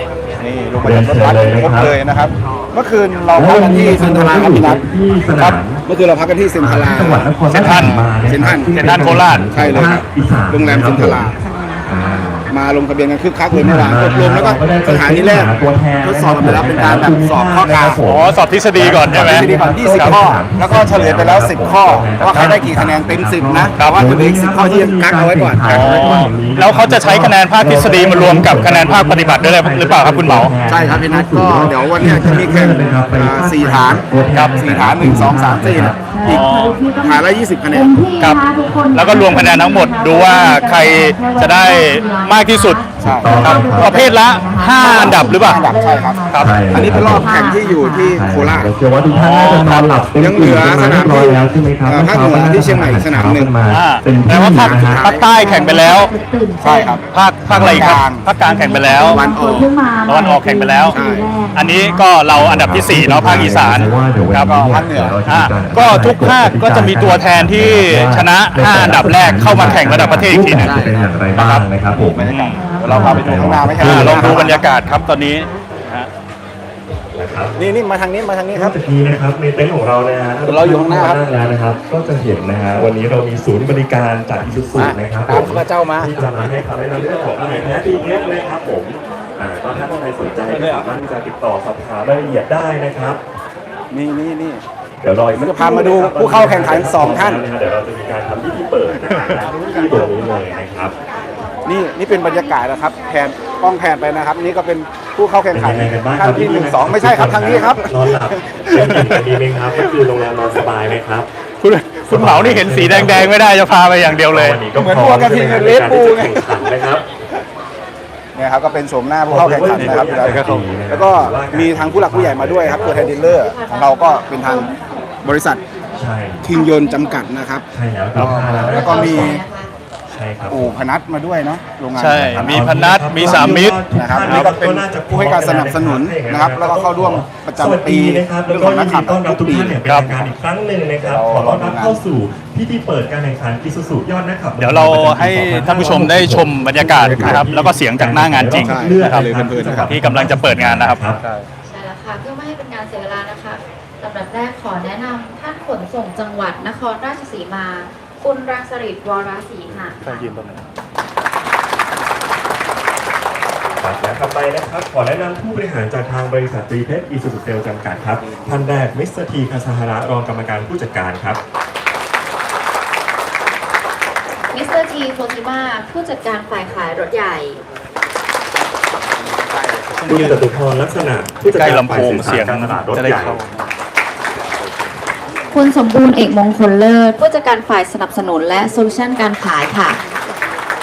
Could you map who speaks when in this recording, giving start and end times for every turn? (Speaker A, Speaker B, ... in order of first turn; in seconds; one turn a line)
Speaker A: 0.4-4.8
Speaker B: 0.8-1.9
Speaker B: 3.3-5.8
Speaker A: 5.3-11.4
Speaker B: 6.6-12.5
Speaker C: 7.5-8.1
Speaker C: 8.8-9.8
Speaker D: 11.4-12.2
Speaker A: 12.5-18.0
Speaker B: 13.5-36.0
Speaker C: 18.1-20.2
Speaker A: 19.1-26.2
Speaker C: 23.8-24.1
Speaker C: 25.7-30.5
Speaker A: 30.7-34.0
Speaker C: 34.3-34.6
Speaker A: 34.5-37.9
Speaker D: 36.0-48.2
Speaker C: 36.2-36.8
Speaker C: 38.9-45.7
Speaker B: 43.0-44.1
Speaker A: 43.0-43.5
Speaker A: 44.8-48.7
Speaker C: 46.3-46.6
Speaker B: 46.4-47.3
Speaker B: 48.1-55.1
Speaker C: 49.1-49.9
Speaker A: 50.2-53.5
Speaker C: 53.7-56.1
Speaker A: 54.3-55.2
Speaker D: 55.2-57.0
Speaker A: 56.6-57.0
Speaker C: 57.1-59.2
Speaker B: 57.5-57.8
Speaker A: 57.5-58.2
Speaker D: 57.6-62.1
Speaker A: 59.1-59.7
Speaker C: 60.1-61.0
Speaker A: 60.9-61.3
Speaker C: 61.5-64.5
Speaker B: 62.3-74.6
Speaker A: 63.2-65.2
Speaker C: 65.3-71.7
Speaker A: 69.4-74.6
Speaker C: 72.2-72.6
Speaker D: 72.5-73.5
Speaker C: 73.7-76.1
Speaker D: 75.1-75.6
Speaker B: 77.1-77.5
Speaker A: 77.6-78.8
Speaker B: 78.5-93.2
Speaker A: 80.5-81.2
Speaker A: 84.8-86.3
Speaker A: 93.9-94.6
Speaker B: 95.0-101.0
Speaker A: 95.3-97.4
Speaker A: 99.1-100.0
Speaker A: 101.7-109.2
Speaker B: 105.5-111.3
Speaker C: 111.6-114.6
Speaker B: 112.1-113.4
Speaker B: 114.0-117.0
Speaker A: 114.8-116.7
Speaker A: 118.3-124.7
Speaker B: 119.3-123.3
Speaker C: 119.7-120.6
Speaker D: 122.7-127.2
Speaker A: 125.2-125.6
Speaker B: 126.0-126.5
Speaker A: 126.4-129.4
Speaker B: 127.7-129.4
Speaker D: 128.6-129.7
Speaker B: 130.1-130.8
Speaker A: 130.5-132.7
Speaker C: 132.0-134.6
Speaker B: 132.2-151.2
Speaker A: 133.2-140.3
Speaker C: 139.8-140.1
Speaker A: 141.0-142.0
Speaker C: 144.6-149.3
Speaker A: 148.6-149.9
Speaker C: 149.9-151.0
Speaker A: 151.2-151.5
Speaker D: 151.7-160.3
Speaker C: 160.0-160.6
Speaker B: 163.8-171.4
Speaker A: 168.2-168.7
Speaker D: 174.5-177.6
Speaker A: 179.7-180.3
Speaker C: 180.1-180.4
Speaker B: 180.1-183.4
Speaker C: 181.5-183.4
Speaker D: 185.5-190.0